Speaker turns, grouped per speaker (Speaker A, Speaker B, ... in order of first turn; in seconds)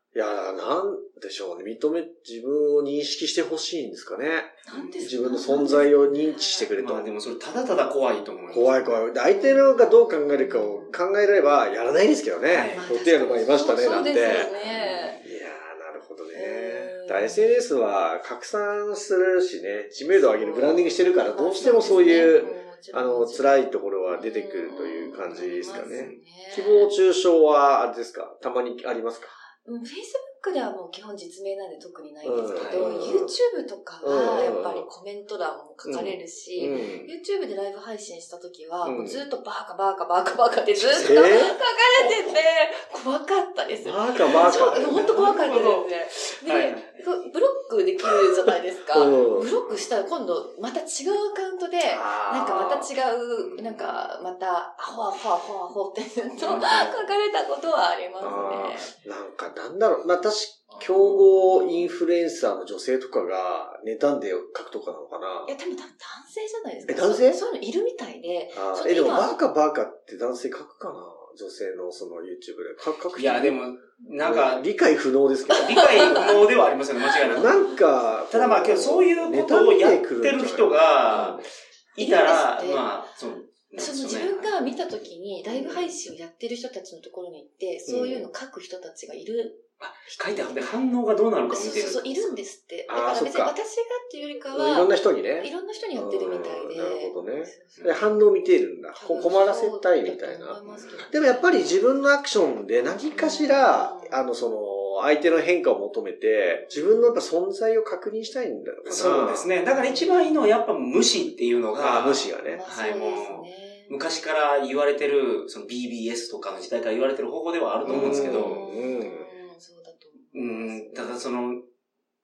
Speaker A: 0.1-7.1, 8.5-14.5, 15.2-29.3, 32.2-33.4, 34.0-34.9, 35.8-37.1, 38.8-39.2, 40.8-41.6, 43.8-45.3, 48.9-49.5, 51.8-52.9, 58.2-65.5, 66.9-67.4, 68.5-73.6, 74.2-76.3, 77.3-81.4, 85.5-85.8, 87.9-88.3, 92.9-93.5, 94.5-109.5, 111.8-112.6, 117.8-119.3
Speaker B: 4.7-6.7, 8.5-11.0, 12.7-15.2, 16.3-17.6, 20.1-26.9, 29.6-58.9, 65.4-69.4, 75.8-76.5, 81.1-81.4, 82.0-82.9, 83.7-89.6, 90.3-90.6, 91.5-98.2, 99.0-101.8, 103.1-104.2, 106.5-107.2, 109.7-110.5, 112.4-114.0, 117.8-121.2
Speaker C: 6.8-8.9, 12.5-12.8, 14.1-15.2, 21.5-22.6, 25.7-26.2, 32.5-32.8, 40.8-41.2, 44.2-47.0, 49.6-49.9, 53.4-54.1, 56.3-57.1, 60.8-61.5, 73.2-74.7, 75.5-77.8, 78.3-81.4, 81.9-84.5, 89.8-92.4, 100.7-100.9, 108.8-118.6, 120.3-121.6